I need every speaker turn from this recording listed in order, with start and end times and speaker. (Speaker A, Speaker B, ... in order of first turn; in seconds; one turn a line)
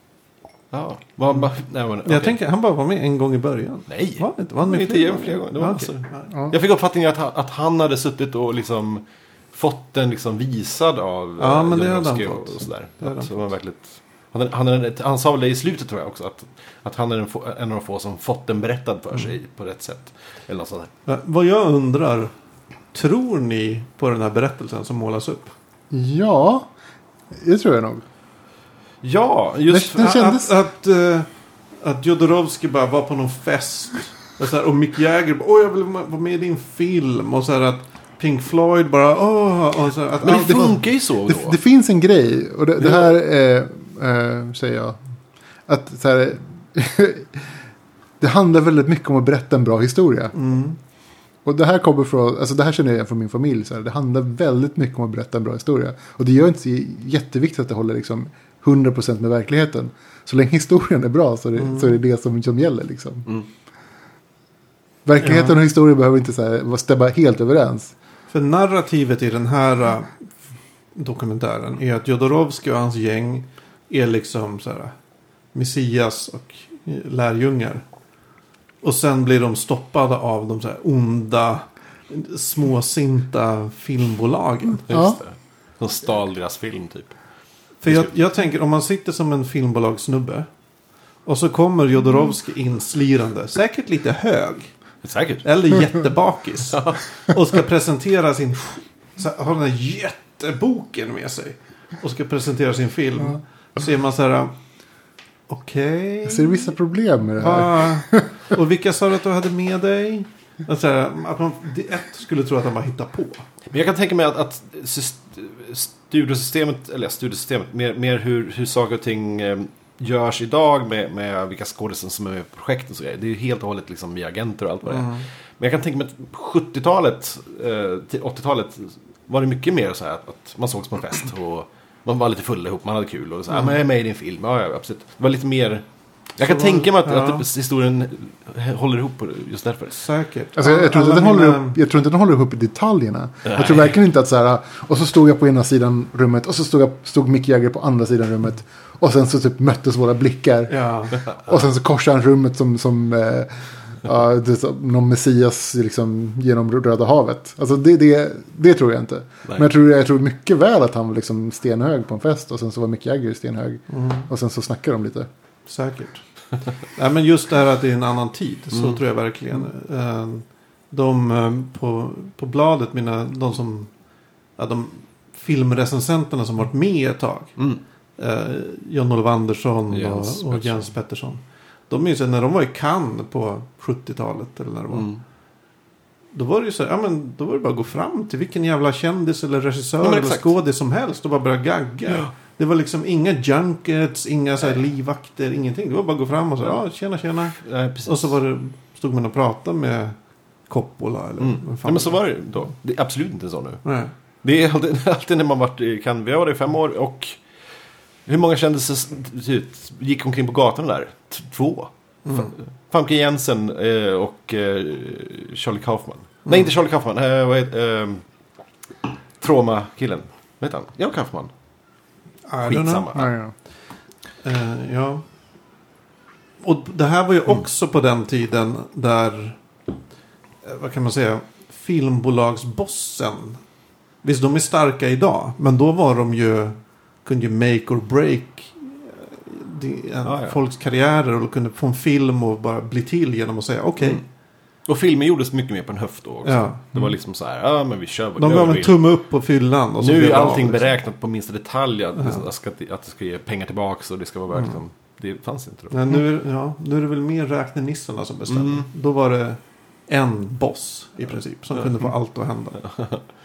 Speaker A: 0.7-2.4
Speaker B: 2.0-6.3
Speaker A: 3.9-20.9
Speaker B: 11.4-13.3
Speaker B: 21.1-22.3
Speaker B: 22.9-25.5
Speaker C: 25.9-26.7
Speaker C: 27.3-28.0
Speaker A: 29.0-30.1
Speaker C: 29.7-30.5
Speaker B: 29.9-31.3
Speaker B: 31.8-40.8
Speaker A: 40.2-41.6
Speaker C: 41.2-45.0
Speaker C: 45.7-47.5
Speaker C: 48.2-50.4
Speaker B: 50.4-50.8
Speaker C: 51.5-63.3
Speaker B: 61.6-62.0
Speaker C: 65.1-67.9
Speaker B: 65.2-65.6
Speaker B: 68.3-70.2
Speaker B: 71.0-74.9
Speaker B: 75.5-77.8
Speaker B: 78.8-84.9
Speaker A: 84.9-87.2
Speaker C: 84.9-85.2
Speaker B: 87.8-90.5
Speaker B: 91.3-94.7
Speaker A: 95.0-95.5
Speaker B: 95.4-104.5
Speaker A: 96.7-97.0
Speaker B: 105.5-106.7
Speaker C: 106.2-108.3
Speaker B: 107.4-113.4
Speaker A: 113.7-135.8
Speaker B: 124.9-125.2
Speaker A: 136.4-140.0
Speaker B: 136.4-137.4
Speaker B: 139.9-141.8
Speaker C: 140.6-165.3
Speaker A: 143.5-143.9
Speaker B: 150.7-151.2
Speaker B: 163.9-164.3
Speaker B: 165.7-166.2
Speaker B: 166.9-173.9
Speaker A: 168.7-169.0
Speaker B: 174.6-177.6
Speaker B: 178.2-185.1
Speaker A: 179.9-180.9
Speaker A: 184.9-185.2
Speaker B: 186.3-200.2
Speaker A: 190.0-190.5
Speaker A: 197.6-198.3
Speaker B: 200.7-202.2
Speaker A: 201.4-203.8
Speaker B: 203.8-204.1
Speaker A: 204.4-207.4
Speaker A: 208.3-218.2
Speaker B: 212.3-212.5
Speaker A: 219.4-221.5
Speaker B: 222.5-223.1
Speaker A: 222.6-223.3
Speaker C: 223.1-223.5
Speaker B: 224.4-225.2
Speaker B: 226.6-229.6
Speaker B: 230.6-233.6
Speaker B: 234.2-244.2
Speaker A: 240.2-240.6
Speaker A: 244.9-249.0
Speaker B: 246.4-246.9
Speaker B: 248.4-250.9
Speaker A: 250.0-256.0
Speaker B: 252.2-252.4
Speaker B: 255.9-262.9
Speaker A: 258.5-258.9
Speaker A: 262.9-263.2